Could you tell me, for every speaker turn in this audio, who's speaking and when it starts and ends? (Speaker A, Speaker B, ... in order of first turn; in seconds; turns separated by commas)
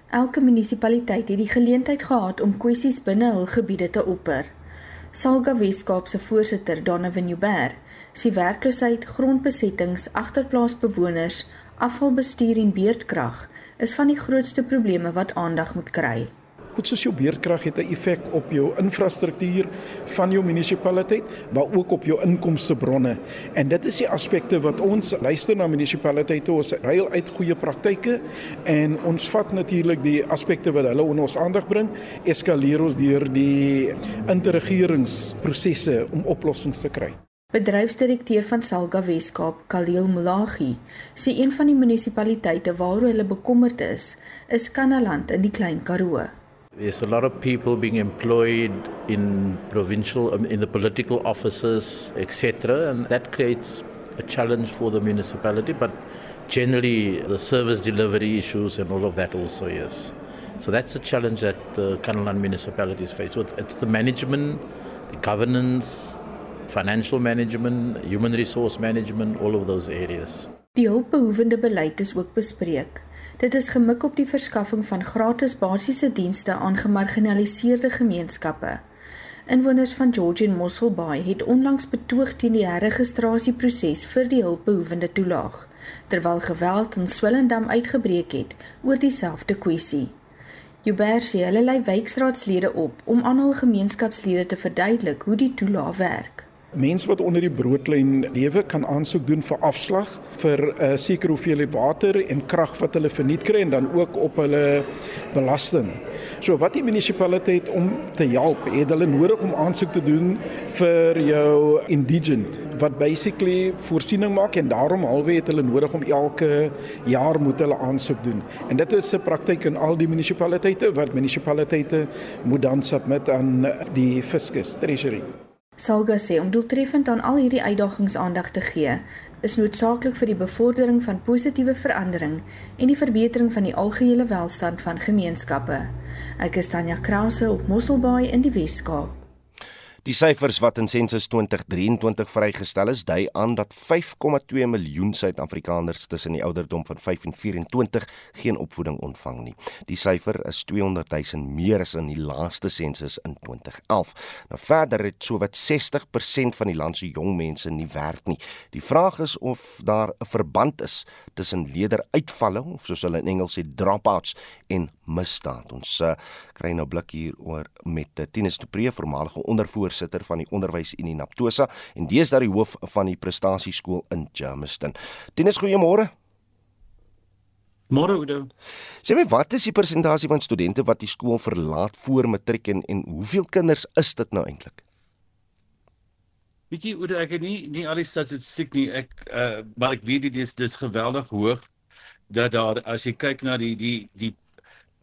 Speaker A: 0.1-4.5, Speaker A: 5.1-16.3, Speaker B: 16.8-37.1, Speaker A: 37.5-46.4, Speaker C: 46.8-70.5, Speaker A: 70.8-78.8, Speaker A: 79.5-90.2, Speaker A: 90.8-96.5, Speaker B: 96.7-125.3, Speaker A: 125.8-139.2, Speaker D: 140.1-176.1, Speaker E: 177.9-178.5, Speaker D: 179.0-184.8, Speaker E: 186.7-191.7, Speaker E: 192.3-194.4